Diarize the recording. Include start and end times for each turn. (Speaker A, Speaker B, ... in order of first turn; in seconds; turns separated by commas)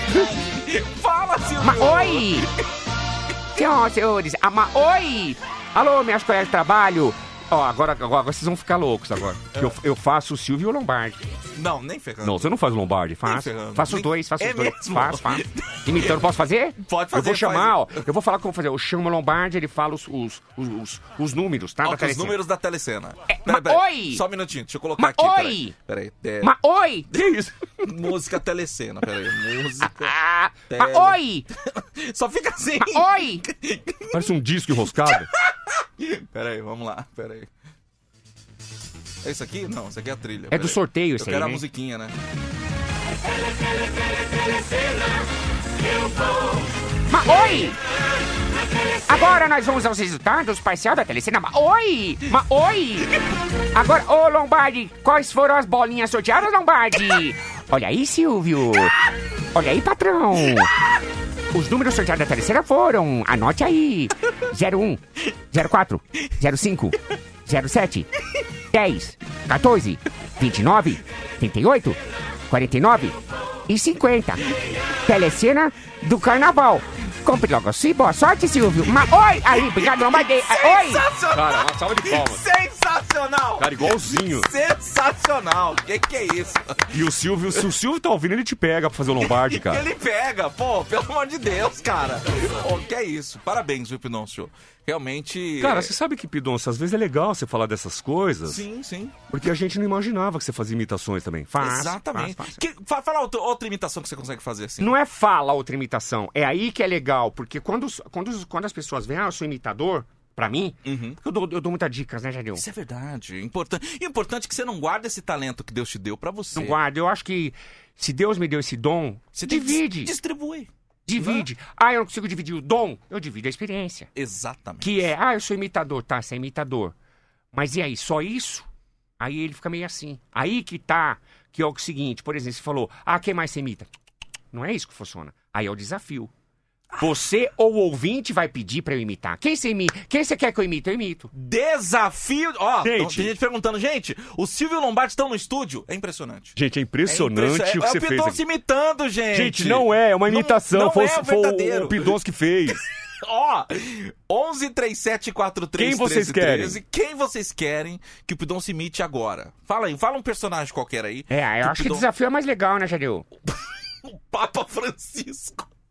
Speaker A: 0.5-2.5, Speaker B: 1.6-2.5, Speaker B: 3.6-11.2, Speaker A: 11.6-12.5, Speaker C: 12.2-13.3, Speaker B: 13.2-22.4, Speaker A: 13.3-16.2, Speaker A: 16.8-17.9, Speaker A: 21.8-26.5, Speaker B: 23.3-24.2, Speaker B: 25.0-25.7, Speaker B: 26.4-27.1, Speaker A: 27.8-30.1, Speaker B: 29.9-31.5, Speaker A: 30.7-31.2, Speaker A: 31.8-34.2, Speaker B: 32.8-33.4, Speaker C: 34.1-35.3, Speaker A: 35.1-35.5, Speaker A: 36.0-37.5, Speaker A: 39.2-42.1, Speaker B: 40.5-41.6, Speaker B: 47.1-47.8, Speaker B: 49.1-53.1, Speaker B: 53.7-58.9, Speaker B: 59.5-60.7, Speaker B: 61.5-65.0, Speaker B: 65.5-68.1, Speaker B: 68.7-72.0, Speaker B: 72.5-74.5, Speaker B: 75.0-81.0, Speaker A: 79.4-87.0, Speaker C: 81.3-82.4, Speaker C: 83.6-84.5, Speaker C: 86.9-89.9, Speaker A: 89.2-95.9, Speaker C: 95.6-98.6, Speaker A: 98.5-99.2, Speaker C: 99.3-101.7, Speaker B: 101.6-102.6, Speaker A: 101.6-104.9, Speaker B: 104.8-112.6, Speaker A: 110.9-111.2, Speaker A: 112.5-116.8, Speaker B: 116.5-120.1, Speaker A: 119.4-121.5, Speaker B: 121.1-124.1, Speaker A: 124.2-125.1, Speaker B: 124.8-127.0, Speaker B: 127.5-128.7, Speaker B: 129.2-133.9, Speaker B: 134.5-136.3, Speaker B: 137.0-141.3, Speaker A: 141.3-146.6, Speaker C: 142.8-143.3, Speaker C: 146.6-148.4, Speaker A: 147.1-152.1, Speaker C: 149.3-152.8, Speaker A: 153.2-162.1, Speaker C: 155.8-156.8, Speaker B: 161.3-163.3, Speaker A: 164.1-165.7